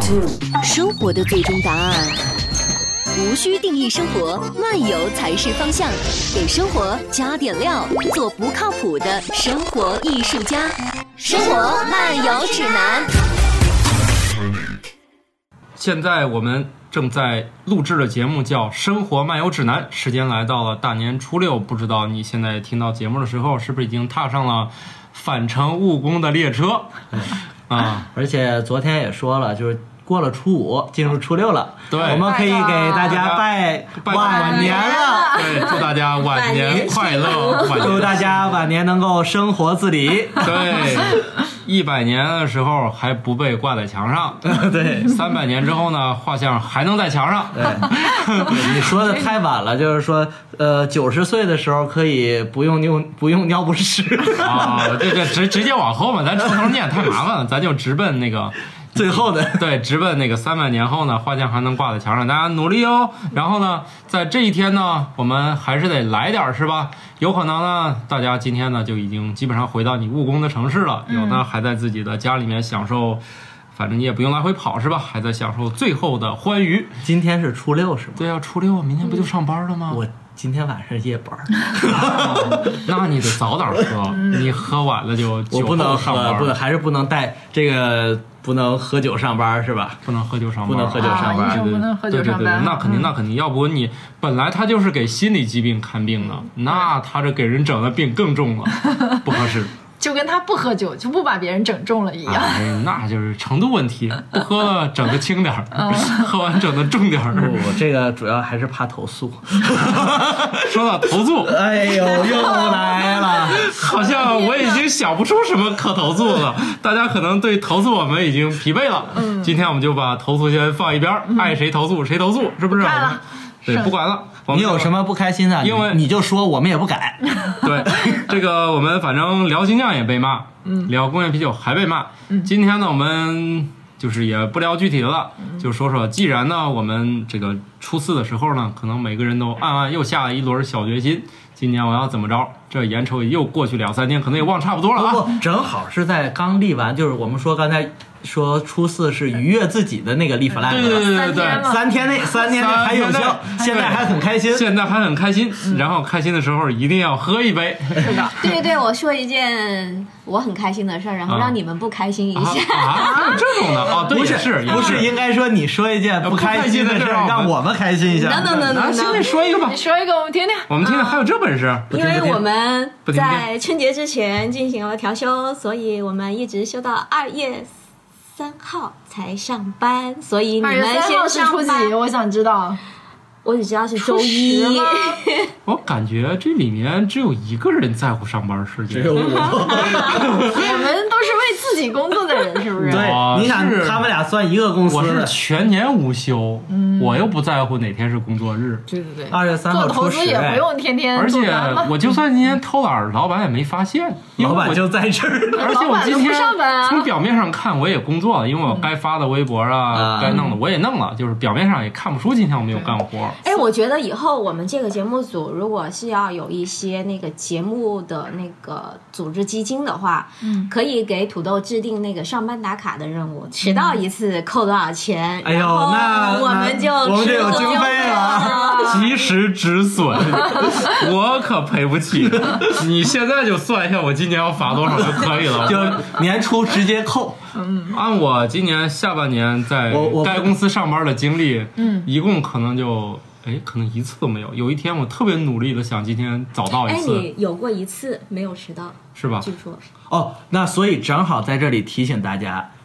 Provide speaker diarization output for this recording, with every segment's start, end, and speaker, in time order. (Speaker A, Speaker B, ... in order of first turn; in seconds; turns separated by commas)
Speaker A: 0.6-2.2, Speaker A: 3.1-13.1, Speaker B: 15.8-26.9, Speaker C: 27.1-35.5, Speaker B: 27.7-28.1, Speaker B: 31.9-32.2, Speaker D: 31.9-33.1, Speaker B: 33.0-38.3, Speaker E: 34.3-38.1, Speaker D: 34.6-35.6, Speaker C: 37.7-40.7, Speaker B: 40.4-48.7, Speaker C: 44.4-45.1, Speaker C: 47.5-55.4, Speaker B: 54.4-73.2, Speaker C: 58.9-59.7, Speaker D: 71.1-71.4, Speaker B: 73.7-76.9, Speaker C: 77.0-78.2, Speaker B: 78.2-80.0, Speaker C: 79.9-82.8, Speaker B: 82.0-86.5, Speaker C: 85.5-90.0, Speaker B: 90.0-99.7, Speaker C: 90.7-91.6, Speaker D: 91.0-93.1, Speaker D: 100.0-102.7, Speaker B: 102.2-107.7, Speaker D: 105.8-106.2, Speaker C: 107.3-110.8, Speaker B: 110.5-111.6, Speaker C: 111.4-113.7, Speaker E: 112.0-112.7, Speaker D: 112.4-114.8, Speaker B: 113.4-124.9, Speaker D: 119.2-119.5, Speaker D: 122.7-123.9, Speaker C: 124.5-127.2, Speaker B: 125.6-126.0, Speaker B: 127.6-145.3, Speaker C: 144.9-154.7, Speaker B: 150.7-151.7, Speaker D: 150.7-152.7, Speaker B: 152.4-158.1, Speaker D: 158.0-158.4, Speaker E: 158.4-163.5, Speaker B: 161.2-161.6, Speaker B: 162.3-165.1, Speaker C: 163.9-168.6, Speaker B: 166.2-167.6, Speaker E: 168.1-169.3, Speaker B: 168.4-169.8, Speaker D: 169.2-171.2, Speaker B: 170.7-172.0, Speaker C: 171.9-172.4, Speaker E: 171.9-177.7, Speaker B: 173.1-173.5, Speaker E: 178.3-181.9, Speaker D: 180.6-182.8, Speaker E: 183.4-185.5, Speaker D: 183.9-185.2, Speaker B: 185.6-189.3, Speaker C: 188.9-190.5, Speaker D: 190.4-193.2, Speaker C: 192.8-195.3, Speaker B: 192.8-194.1, Speaker B: 194.8-198.8, Speaker D: 196.7-197.2, Speaker D: 198.9-202.0, Speaker C: 199.3-200.6, Speaker B: 201.1-204.9, Speaker C: 204.4-205.8, Speaker D: 205.5-207.1, Speaker B: 205.5-213.4, Speaker C: 209.9-210.4, Speaker E: 213.4-229.1, Speaker D: 220.4-220.7, Speaker D: 223.6-224.0, Speaker C: 225.4-228.6, Speaker D: 227.2-229.1, Speaker B: 228.9-236.1, Speaker C: 235.2-237.4, Speaker D: 237.5-238.0, Speaker B: 237.9-247.3, Speaker C: 239.9-240.6, Speaker D: 241.8-242.1, Speaker E: 246.7-249.8, Speaker B: 249.1-249.5, Speaker C: 250.1-252.7